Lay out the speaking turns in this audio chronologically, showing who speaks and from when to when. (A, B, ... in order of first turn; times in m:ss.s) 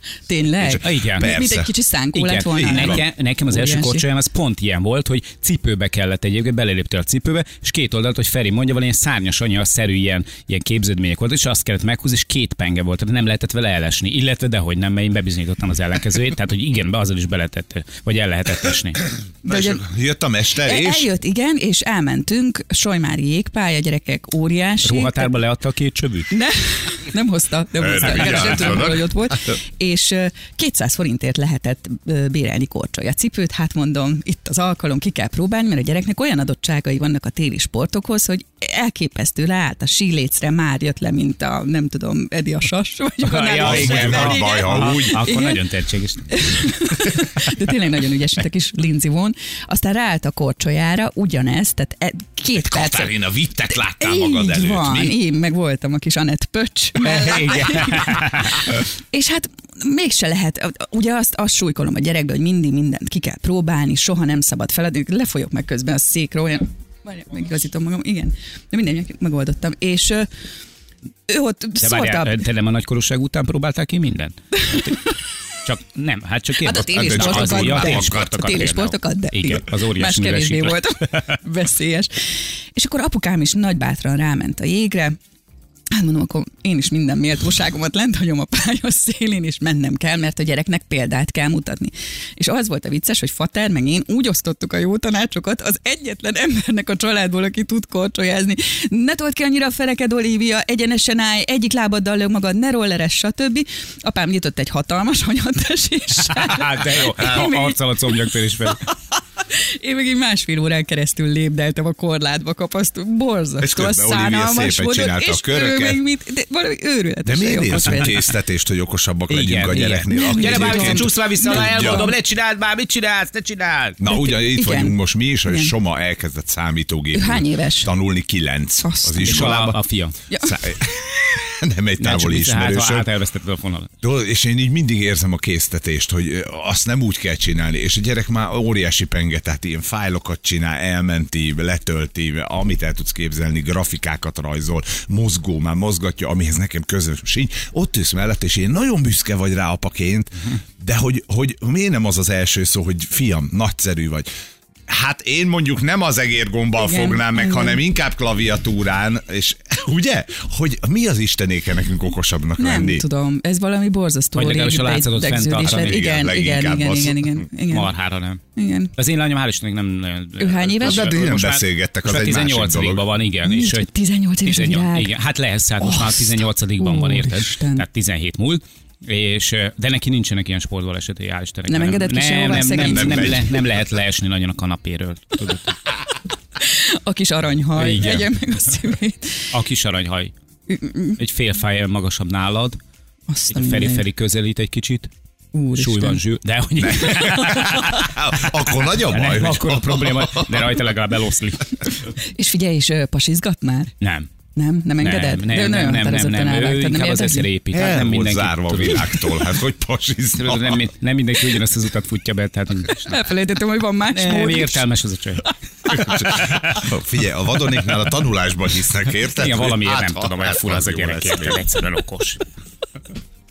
0:00.3-0:04.0 A
0:00.6-0:01.7 B
0:00.8-0:01.3 C
0:02.1-0:19.0 C
0:02.5-0:03.0 B
0:19.4-0:19.8 A
0:19.4-0:21.1 B
0:20.6-0:25.3 A
0:24.8-0:26.3 C
0:26.3-0:45.6 A
0:27.8-0:29.3 B
0:28.2-0:28.6 C
0:43.2-0:46.3 C
0:43.6-0:45.3 B
0:46.3-0:53.2 A
0:52.5-0:55.2 B
0:53.7-1:10.3 A
0:57.0-0:58.7 C
1:11.3-1:12.4 A
1:11.8-1:15.0 C
1:14.6-1:14.9 A
1:15.6-1:21.2 C
1:16.6-1:25.2 A
1:16.9-1:18.5 B
1:25.9-1:47.8 A
1:46.3-1:48.8 C
1:49.5-1:58.2 A
1:53.6-1:56.0 B
1:57.2-2:02.1 B
1:59.3-2:04.0 C
2:00.1-2:02.1 A
2:04.0-2:09.8 B
2:04.0-2:05.7 A
2:07.1-2:07.9 A
2:08.8-2:09.5 A
2:09.2-2:10.1 C
2:10.3-2:10.6 A
2:10.4-2:13.1 B
2:12.0-2:13.9 C
2:14.0-2:34.3 B
2:34.9-2:43.0 B
2:36.8-2:37.8 A
2:42.6-2:47.9 A
2:44.4-2:46.0 C
2:45.6-2:47.4 B
2:47.7-2:48.4 C
2:48.6-2:48.9 A
2:49.0-2:53.9 C
2:50.4-2:51.2 A
2:50.8-2:53.0 B
2:53.4-2:55.1 A
2:54.4-3:05.8 C
2:55.8-2:57.8 A
3:01.7-3:03.4 A
3:02.7-3:03.6 B
3:06.6-3:09.5 A
3:07.7-3:08.3 C
3:09.5-3:10.3 C
3:10.7-3:11.2 A
3:11.2-3:12.8 C
3:13.3-3:14.0 A
3:13.5-3:15.1 C
3:15.5-3:16.2 A
3:15.8-3:18.2 C
3:16.8-3:20.7 B
3:18.9-3:21.9 C
3:22.2-3:23.9 A
3:24.0-3:24.3 C
3:24.6-3:27.5 A
3:25.0-3:29.3 C
3:27.7-3:30.8 B
3:30.3-3:33.2 C
3:33.0-3:34.8 A
3:34.1-3:36.8 C
3:35.9-3:41.6 B
3:39.3-3:42.4 C